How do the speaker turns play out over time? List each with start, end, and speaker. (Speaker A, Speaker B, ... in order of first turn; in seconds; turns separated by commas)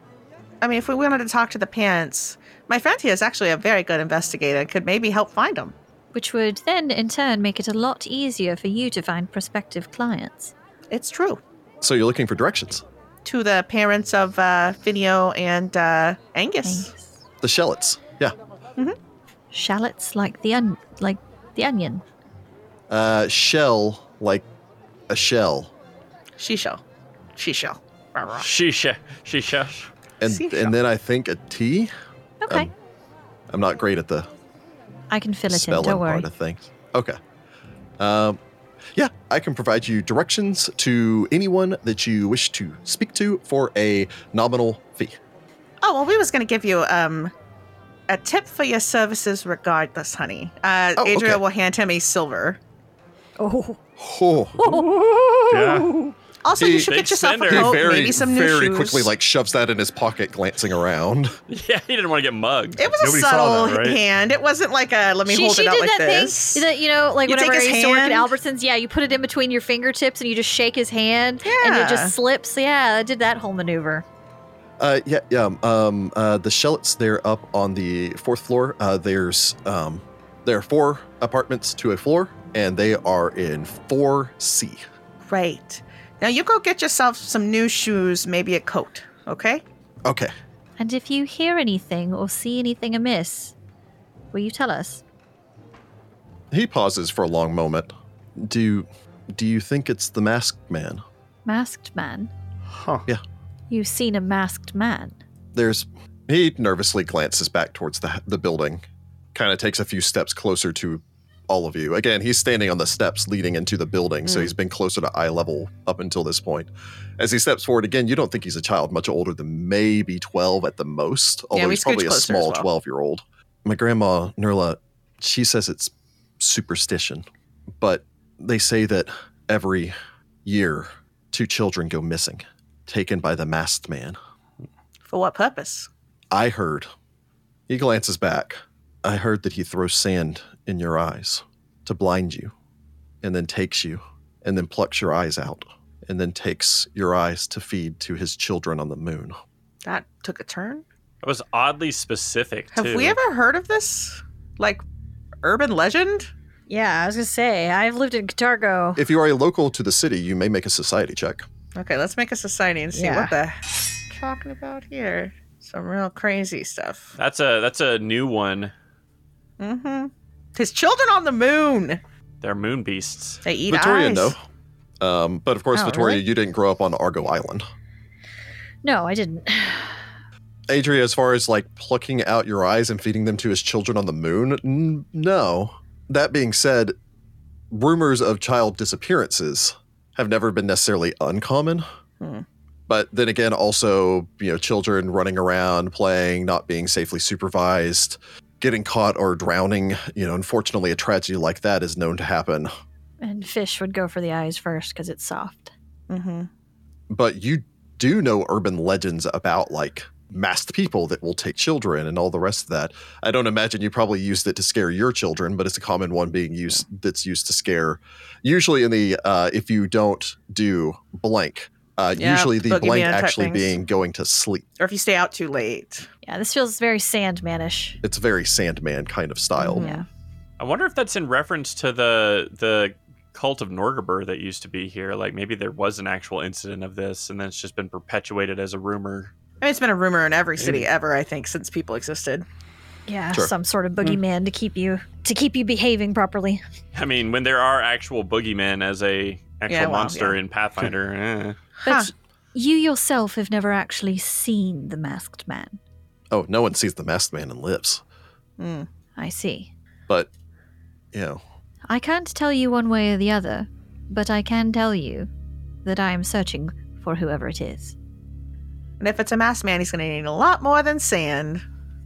Speaker A: 0.6-5.7, Speaker B: 6.1-10.5, Speaker A: 10.9-11.4, Speaker C: 11.8-12.8, Speaker A: 13.2-16.9, Speaker B: 16.6-17.2, Speaker C: 17.4-18.4, Speaker B: 19.5-22.0, Speaker C: 22.9-24.4, Speaker C: 25.1-25.7, Speaker A: 26.4-26.8, Speaker A: 27.4-28.4, Speaker D: 28.4-29.9, Speaker C: 30.2-31.9, Speaker A: 30.2-30.7, Speaker B: 32.4-32.7, Speaker C: 33.5-34.3, Speaker B: 35.1-36.3, Speaker C: 35.5-37.2, Speaker C: 38.0-38.4, Speaker C: 38.9-45.2, Speaker A: 45.8-47.3, Speaker A: 48.1-52.6, Speaker C: 51.0-51.4, Speaker B: 53.4-53.8, Speaker C: 54.0-54.9, Speaker B: 54.6-56.1, Speaker E: 55.5-56.0, Speaker A: 56.4-59.1, Speaker C: 56.6-56.9, Speaker D: 56.6-57.9, Speaker C: 57.4-61.4, Speaker D: 61.5-62.8, Speaker A: 62.8-66.6, Speaker E: 63.0-64.0, Speaker B: 65.3-74.0, Speaker A: 67.2-68.3, Speaker A: 71.4-72.1, Speaker C: 74.8-84.8, Speaker A: 85.3-89.6, Speaker C: 90.0-90.3, Speaker B: 90.8-93.5, Speaker B: 94.3-95.0, Speaker C: 96.5-101.0, Speaker B: 101.4-102.3, Speaker E: 102.7-103.1, Speaker B: 103.7-105.2, Speaker C: 105.5-127.2, Speaker A: 121.5-122.7, Speaker C: 127.8-134.2, Speaker A: 135.1-135.9, Speaker C: 136.3-136.9, Speaker C: 137.7-142.5, Speaker C: 143.2-149.4, Speaker A: 149.8-150.8, Speaker D: 151.2-153.2, Speaker A: 152.7-154.8, Speaker A: 155.4-156.3, Speaker B: 156.7-159.0, Speaker C: 158.9-161.4, Speaker A: 161.8-167.1, Speaker B: 162.9-163.3, Speaker D: 167.2-168.7, Speaker A: 169.6-172.0, Speaker D: 172.4-173.4, Speaker A: 173.4-174.4, Speaker C: 173.7-174.4, Speaker C: 175.0-177.6, Speaker B: 175.7-176.2, Speaker B: 178.8-180.0, Speaker C: 180.7-186.9, Speaker C: 187.7-191.9, Speaker C: 192.9-202.7, Speaker B: 203.2-205.7, Speaker A: 206.1-206.5, Speaker C: 207.1-224.7, Speaker A: 222.2-223.7, Speaker A: 224.8-226.1, Speaker B: 226.2-228.0, Speaker C: 228.0-229.9, Speaker A: 229.6-230.0, Speaker B: 229.7-230.1, Speaker D: 230.6-239.3, Speaker A: 239.6-242.4, Speaker E: 240.6-240.9, Speaker B: 243.1-246.6, Speaker D: 246.9-251.6, Speaker A: 249.7-250.4, Speaker B: 251.8-255.8, Speaker A: 251.8-252.1, Speaker C: 256.3-258.0, Speaker A: 258.6-258.9, Speaker B: 259.2-259.7, Speaker C: 261.1-261.4, Speaker B: 261.9-265.3, Speaker B: 265.9-267.9, Speaker A: 269.0-271.6